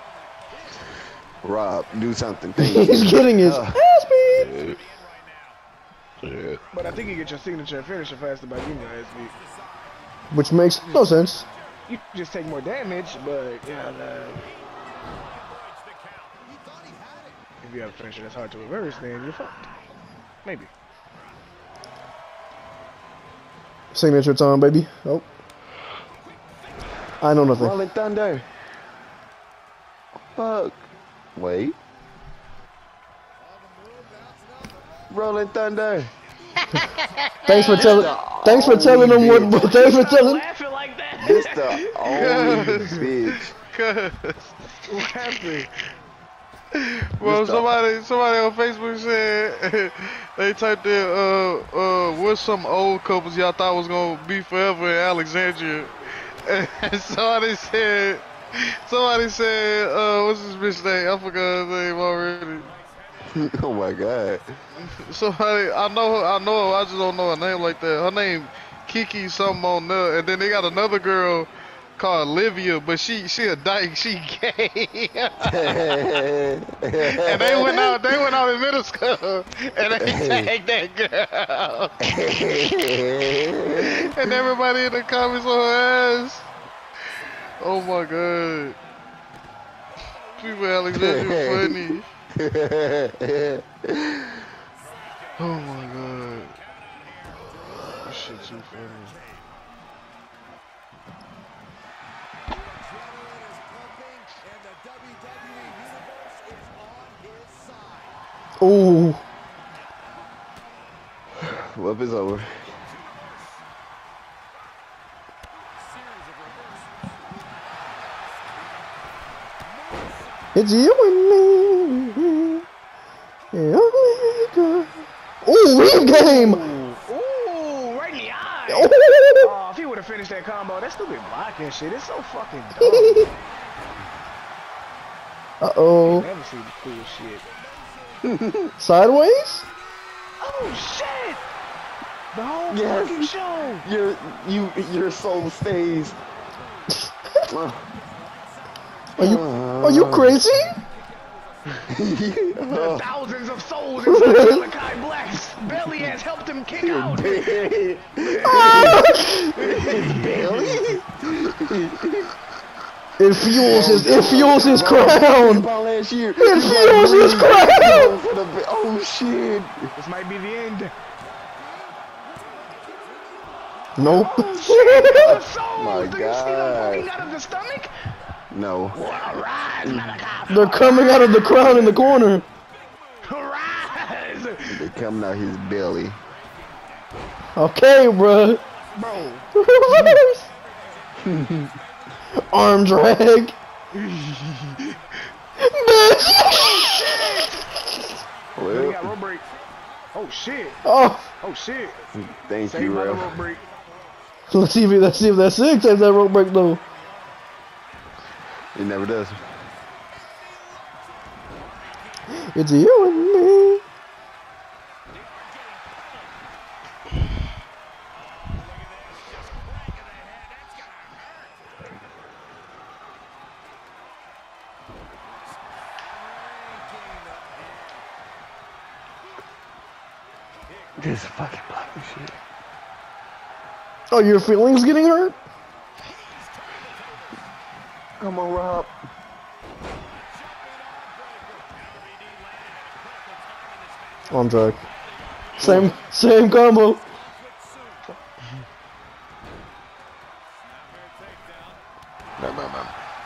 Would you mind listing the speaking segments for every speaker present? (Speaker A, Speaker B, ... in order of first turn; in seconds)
Speaker A: 1.4-3.8, 4.4-4.8, 6.2-6.6, 27.5-28.5, 30.4-31.8, 35.1-36.1, 37.7-39.6, 41.2-43.5, 47.2-47.7, 63.2-64.5, 75.5-78.0, 80.0-80.5, 82.0-84.4, 90.9-94.5, 111.4-112.6, 138.2-138.7, 142.7-143.3, 143.8-146.2, 147.5-147.9, 149.2-150.5, 151.9-153.1, 156.8-162.3, 163.5-169.9, 175.2-177.1, 178.5-179.0, 179.8-180.2, 184.7-186.2, 191.2-191.8, 198.6-199.1, 202.2-203.3, 208.8-209.4, 231.0-232.4, 238.2-238.9, 245.6-246.0, 252.4-252.9
Speaker B: 2.6-4.6, 10.3-11.5, 23.9-25.3, 27.2-27.8, 37.5-40.4, 108.6-109.2, 120.5-122.7, 123.5-126.6, 128.7-129.5, 132.8-133.3, 135.6-136.3, 138.8-139.7, 149.2-150.8, 154.1-154.6, 158.5-159.4, 163.2-165.7, 166.4-168.2, 174.0-175.4, 180.5-182.5, 187.6-188.6, 189.5-190.5, 192.4-193.6, 195.6-197.2, 200.8-201.3, 204.5-206.8, 212.3-213.8, 234.1-235.4, 244.3-244.8, 245.6-247.0
Speaker C: 6.7-9.4, 11.9-14.5, 17.6-19.7, 20.4-20.7, 39.5-43.0, 44.9-45.7, 126.1-133.3, 136.0-137.5, 140.4-141.4, 142.3-143.9, 152.7-157.6, 158.2-160.8, 170.0-170.9, 174.0-177.9, 178.9-182.0, 183.2-184.8, 188.9-190.2, 193.9-195.0, 196.2-197.7, 198.7-199.5, 200.1-200.8, 201.4-202.0, 202.7-203.6
Speaker D: 42.1-44.5, 46.7-62.7, 64.9-76.1, 77.0-82.0, 83.8-86.5, 87.6-88.8, 90.4-92.1, 95.4-96.6, 97.9-99.2